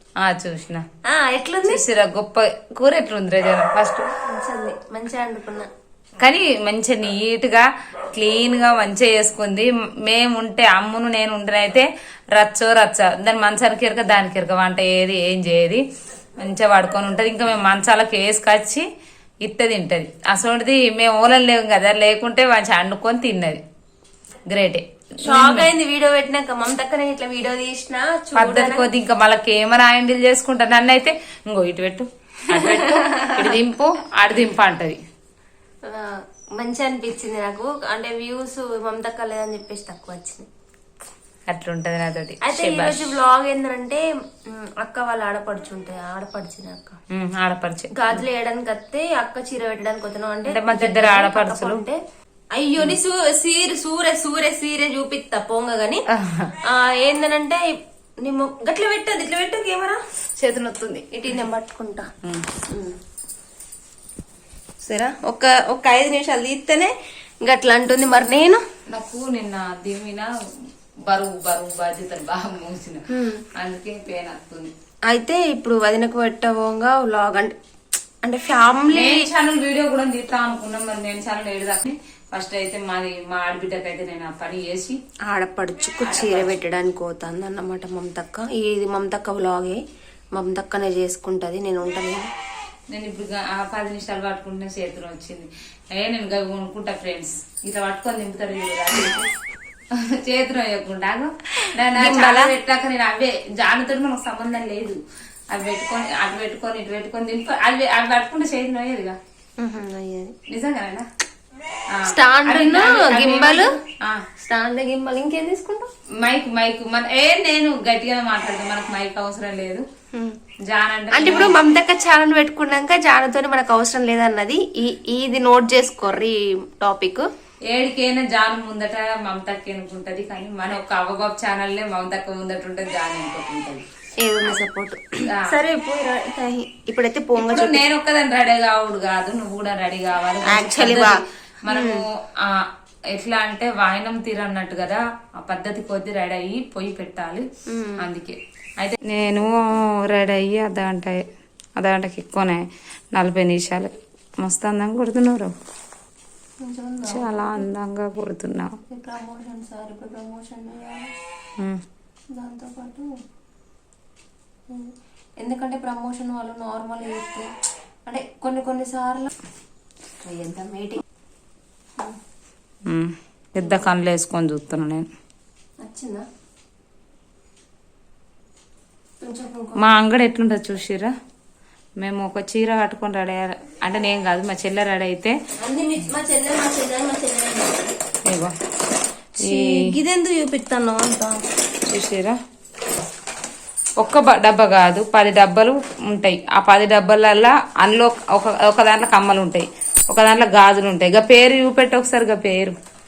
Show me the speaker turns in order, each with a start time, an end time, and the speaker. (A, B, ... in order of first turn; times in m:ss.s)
0:00.2-0:00.8 A
0:01.1-0:01.8 B
0:01.6-0:04.1 A
0:04.3-0:05.7 B
0:06.2-0:15.8 A
0:16.4-0:18.8 A
0:19.4-0:23.6 A
0:24.5-0:25.7 A
0:25.2-0:28.9 B
0:28.4-0:35.0 A
0:32.6-0:33.5 B
0:35.9-0:40.5 B
0:41.5-0:43.1 A
0:42.4-0:47.0 B
0:47.1-0:48.2 A
0:48.0-0:52.0 B
0:50.5-0:51.8 A
0:52.6-0:56.0 B
0:56.1-0:56.6 A
0:56.6-1:00.0 B
1:00.4-1:01.1 A
1:01.1-1:02.1 B
1:02.7-1:03.0 B
1:04.8-1:08.6 B
1:08.9-1:10.3 A
1:11.0-1:13.0 A
1:13.1-1:13.4 B
1:13.6-1:14.7 A
1:15.1-1:17.6 B
1:18.2-1:19.3 B
1:18.9-1:25.0 A
1:25.3-1:29.8 B
1:26.0-1:26.5 A
1:30.4-1:32.3 B
1:32.9-1:39.2 A
1:39.9-1:45.0 A
1:41.9-1:42.5 B
1:45.5-1:49.2 A
1:49.6-1:50.4 B
1:50.5-1:51.1 A
1:51.9-1:54.2 A
1:52.1-1:53.7 B
1:54.4-1:55.9 B
1:56.2-1:59.9 A
2:00.7-2:01.6 A
2:01.1-2:07.3 B
2:07.7-2:13.8 A
2:14.2-2:17.8 B
2:15.3-2:15.6 A
2:17.4-2:27.5 A
2:20.5-2:22.0 B
2:27.7-2:28.0 B
2:28.0-2:31.3 A
2:31.8-2:33.9 A
2:34.4-2:35.5 A
2:36.6-2:37.7 B
2:37.1-2:38.8 A
2:38.9-2:41.1 B
2:42.3-2:43.1 B
2:44.7-2:47.5 B
2:48.1-2:49.3 B
2:50.2-2:51.0 B
2:52.9-2:55.1 A
2:53.6-2:53.9 B
2:55.8-2:56.2 B
2:59.2-2:59.8 B
2:59.8-3:01.1 A
3:02.0-3:05.4 A
3:05.6-3:07.9 B
3:08.3-3:08.6 A
3:09.4-3:11.4 B
3:09.4-3:09.9 A
3:11.9-3:12.4 A
3:14.0-3:22.8 A